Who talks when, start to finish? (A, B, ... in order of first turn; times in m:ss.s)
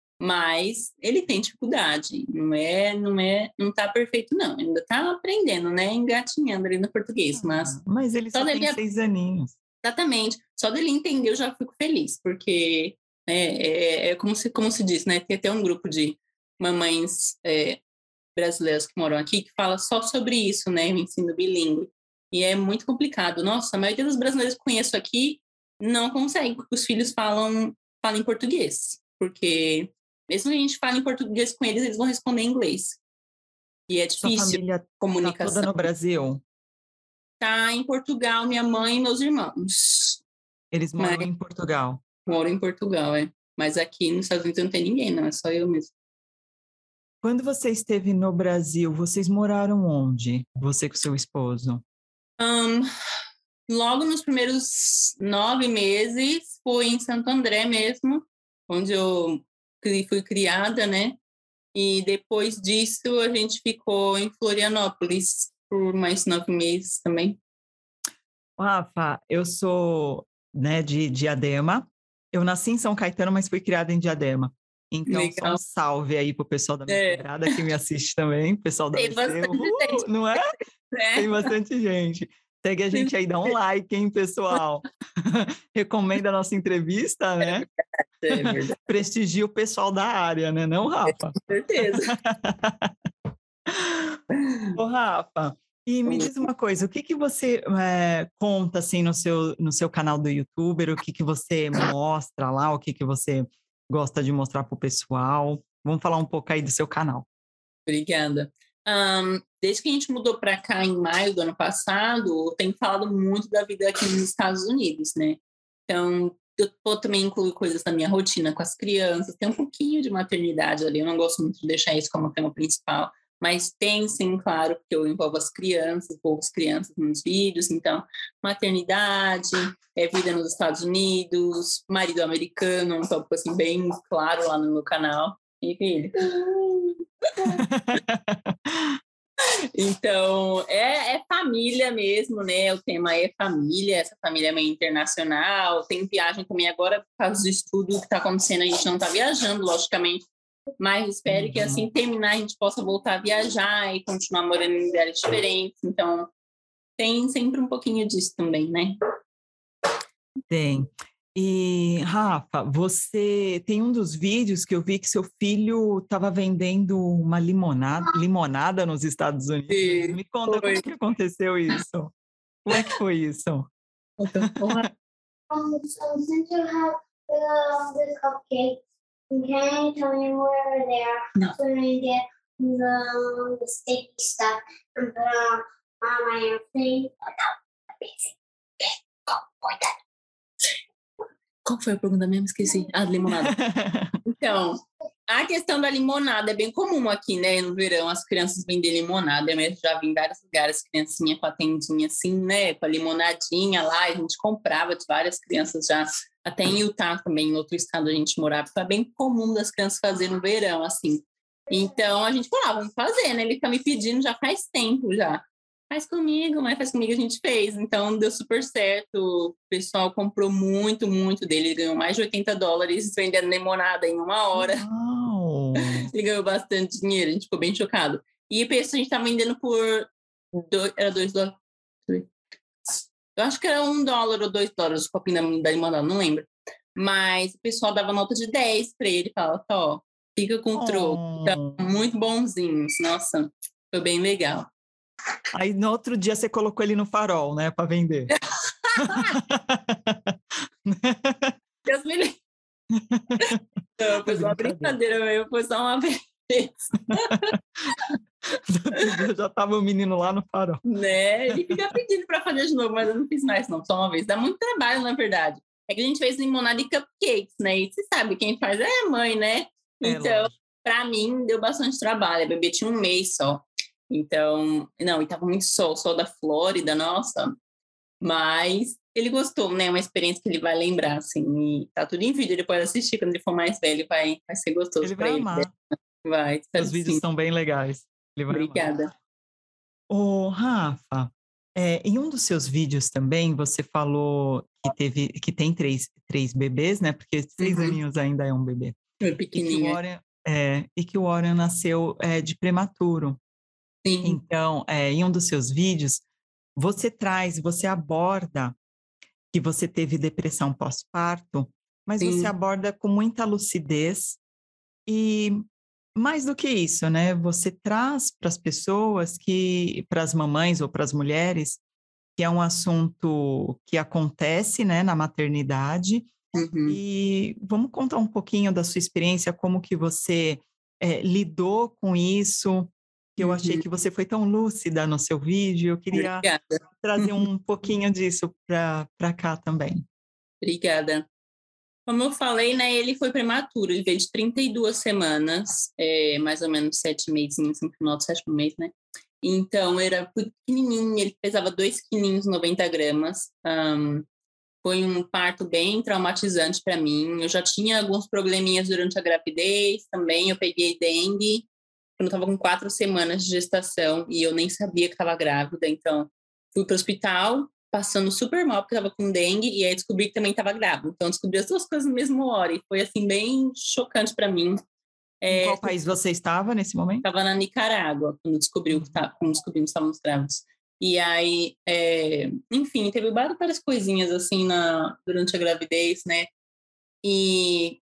0:00.2-0:07.8 A
0:07.4-0:09.6 B
0:08.3-0:08.8 A
0:09.8-0:17.8 A
0:18.4-0:33.0 A
0:33.9-0:35.9 A
0:34.2-0:36.4 B
0:37.4-0:40.2 A
0:40.7-0:42.0 B
0:41.0-0:41.3 A
0:42.2-0:45.9 A
0:47.2-0:51.8 B
0:52.4-0:52.9 A
0:53.7-1:01.2 A
1:01.7-1:07.4 A
1:08.6-1:20.5 B
1:15.1-1:15.6 A
1:16.9-1:17.6 A
1:18.9-1:20.0 A
1:20.9-1:21.5 A
1:21.2-1:27.6 B
1:22.9-1:23.5 A
1:28.2-1:28.8 A
1:28.3-1:31.4 B
1:31.1-1:32.1 A
1:31.9-1:32.9 B
1:33.7-1:34.2 B
1:34.8-1:47.2 B
1:47.9-2:17.6 A
2:17.6-2:19.0 B
2:19.8-2:30.3 A
2:30.8-2:36.3 A
2:31.3-2:31.8 B
2:37.0-2:39.0 A
2:40.5-2:52.1 B
2:49.7-2:50.8 A
2:52.6-2:53.7 B
2:54.2-2:54.9 A
2:54.4-2:54.9 B
2:55.5-3:09.9 C
3:11.6-3:13.5 A
3:13.4-3:14.2 B
3:14.2-3:44.8 A
3:44.6-3:46.1 B
3:45.8-3:52.3 A
3:52.9-4:04.7 A
4:00.8-4:01.9 B
4:05.5-4:08.3 B
4:08.8-4:09.3 A
4:09.0-4:11.6 B
4:11.8-4:12.4 A
4:12.9-4:13.6 B
4:14.0-4:18.1 A
4:14.2-4:15.0 B
4:18.5-4:20.8 B
4:20.8-4:37.6 A
4:21.5-4:21.8 B
4:30.0-4:30.5 B
4:38.2-4:47.2 A
4:45.0-4:45.7 B
4:46.8-4:48.9 B
4:48.5-4:49.1 A
4:50.1-4:59.0 B
4:57.6-4:58.0 A
4:59.2-5:00.0 A
4:59.5-5:03.4 B
5:04.0-5:04.4 A
5:04.2-5:06.2 B
5:06.8-5:08.8 B
5:09.5-5:14.4 B
5:12.2-5:12.5 A
5:15.1-5:21.8 B
5:22.4-5:26.4 B
5:26.5-5:27.0 A
5:26.9-5:36.5 B
5:33.4-5:33.8 A
5:36.1-5:37.4 A
5:37.0-5:40.0 B
5:40.6-5:41.3 A
5:42.1-5:54.3 A
5:54.8-6:14.8 A
6:15.4-6:15.9 A
6:15.5-6:17.2 B
6:17.2-6:26.5 A
6:27.2-6:28.0 A